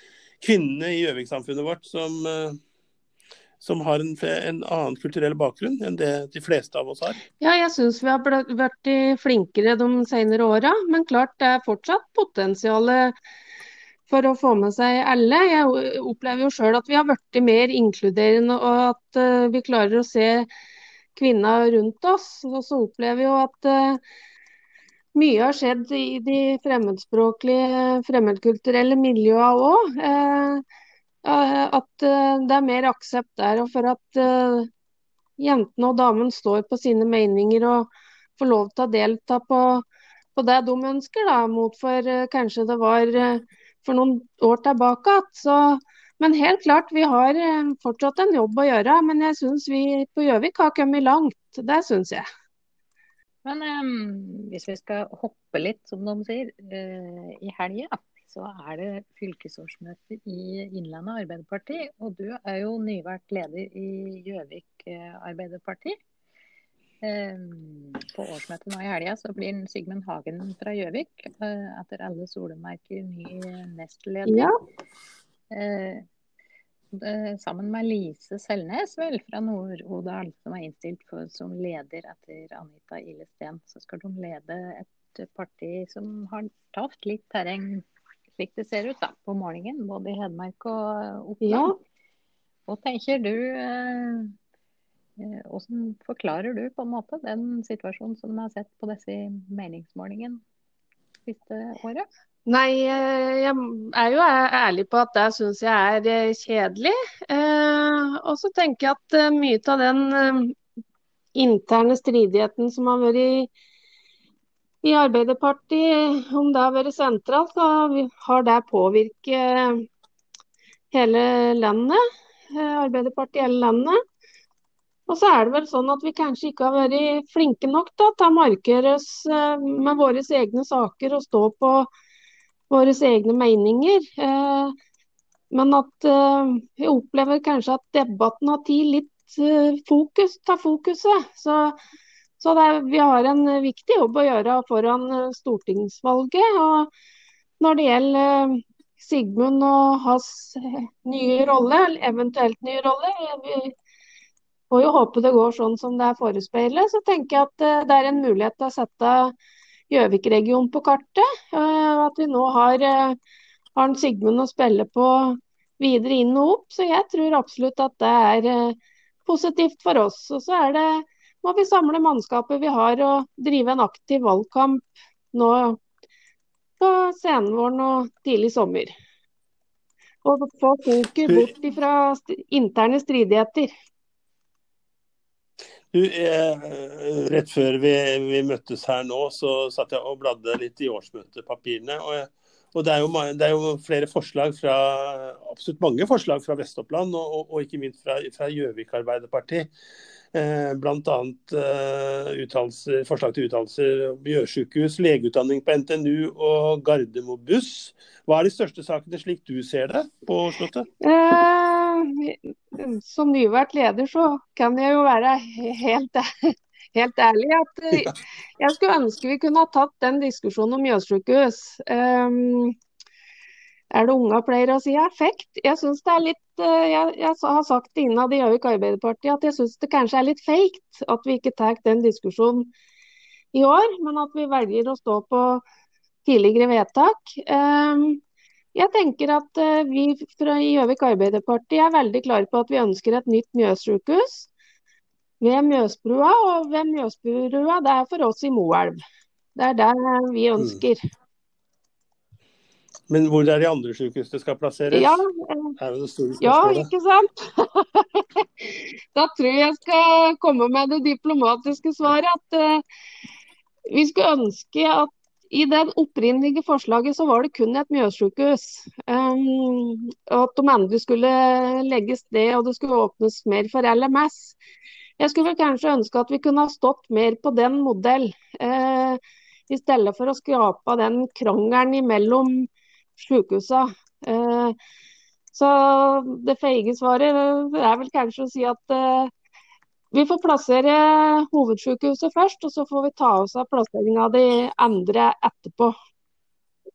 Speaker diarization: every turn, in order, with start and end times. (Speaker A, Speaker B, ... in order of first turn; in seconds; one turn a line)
Speaker A: 0.4-2.6
Speaker A: 3.6-7.2
Speaker B: 7.4-13.1
Speaker B: 14.1-20.5
Speaker B: 21.1-24.0
Speaker B: 25.1-30.6
Speaker B: 31.2-34.7
Speaker B: 35.4-52.2
Speaker C: 53.4-66.0
Speaker C: 67.0-74.5
Speaker B: 74.2-74.5
Speaker C: 75.5-76.0
Speaker C: 76.9-87.8
Speaker C: 88.4-91.8
Speaker B: 91.4-91.7
Speaker C: 92.7-94.3
Speaker C: 95.2-100.4
Speaker C: 101.2-102.1
Speaker B: 102.5-110.5
Speaker B: 111.3-113.5
Speaker B: 114.8-119.8
Speaker B: 120.9-124.0
Speaker B: 125.1-131.9
Speaker B: 132.7-134.7
Speaker B: 135.5-141.8
Speaker B: 142.4-146.9
Speaker B: 147.6-153.7
Speaker B: 154.7-159.3
Speaker B: 159.9-163.2
Speaker B: 163.7-175.8
Speaker B: 176.8-178.9
Speaker B: 180.2-183.7
Speaker A: 181.2-181.5
Speaker A: 185.9-199.7
Speaker A: 200.3-210.9
Speaker B: 211.0-222.8
Speaker B: 223.9-232.7
Speaker B: 233.5-235.6
Speaker B: 236.2-238.2
Speaker B: 238.7-244.5
Speaker B: 245.4-249.0
Speaker B: 249.6-251.0
Speaker A: 253.1-255.2
Speaker B: 254.9-255.7
Speaker A: 255.8-256.9
Speaker B: 256.4-262.8
Speaker B: 263.9-274.6
Speaker B: 275.2-284.8
Speaker B: 285.5-289.3
Speaker B: 290.1-295.9